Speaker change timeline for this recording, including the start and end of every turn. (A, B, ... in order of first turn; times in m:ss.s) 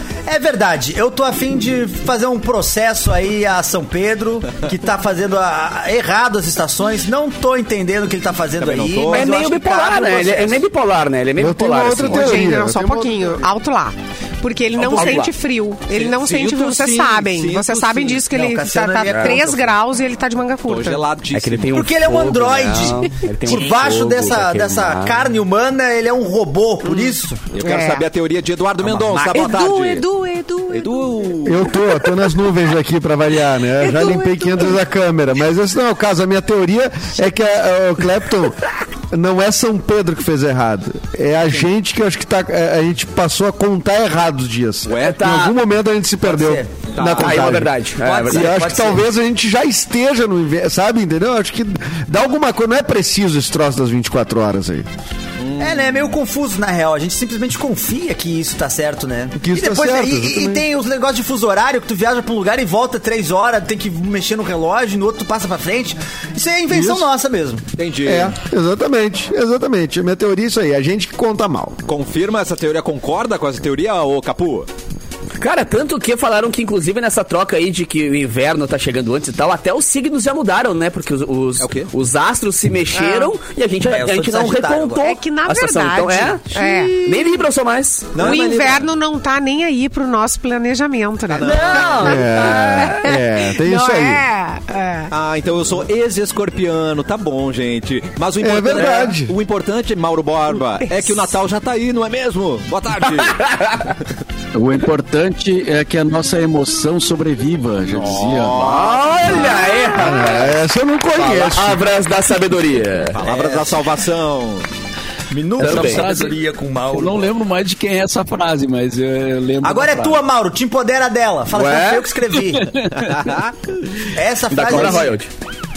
0:00.3-0:10.6 A
0:08.6-0:09.4 B
0:09.1-0:12.5 C
0:11.4-0:13.4 D
0:12.0-0:21.0 E
0:14.8-0:15.3 B
0:14.8-0:15.3 C
0:15.9-0:18.3 B
0:18.3-0:19.8 A
0:19.0-0:19.4 C
0:20.6-0:23.0 B
0:21.3-0:25.2 C
0:21.7-0:27.4 A
0:26.8-0:28.0 E
0:27.5-0:30.1 B
0:28.8-0:29.5 A
0:29.3-0:31.3 E
0:30.7-0:31.7 B
0:31.4-0:47.7 D
0:33.8-0:34.8 E
0:44.9-0:45.2 B
0:44.9-0:45.6 C
0:46.2-0:46.7 A
0:46.9-0:47.4 B
0:47.1-0:48.6 C
0:48.0-0:49.0 A
0:48.3-0:54.9 D
0:55.4-0:56.1 B
0:55.6-1:07.6 A
0:59.4-1:00.6 D
1:06.7-1:07.1 D
1:07.8-1:08.3 B
1:08.0-1:11.8 D
1:11.8-1:14.7 B
1:15.4-1:28.2 C
1:21.6-1:21.9 B
1:22.9-1:23.3 E
1:23.8-1:25.0 A
1:25.0-1:27.4 E
1:28.1-1:28.9 B
1:28.2-1:35.1 E
1:31.4-1:32.1 B
1:31.4-1:32.2 A
1:32.0-1:34.2 D
1:35.1-1:43.6 B
1:38.4-1:39.3 D
1:43.4-1:43.7 C
1:44.5-1:48.7 F
1:47.9-1:49.8 B
1:48.6-1:50.5 C
1:49.9-1:51.9 D
1:51.1-1:53.2 C
1:53.1-1:54.7 B
1:53.2-1:53.8 A
1:55.3-1:57.3 A
1:55.6-2:00.2 F
1:55.6-1:56.0 C
1:59.6-2:02.7 A
2:01.5-2:02.1 C
2:02.6-2:03.3 F
2:03.0-2:03.7 B
2:04.1-2:05.1 A
2:04.5-2:05.3 C
2:04.7-2:05.0 F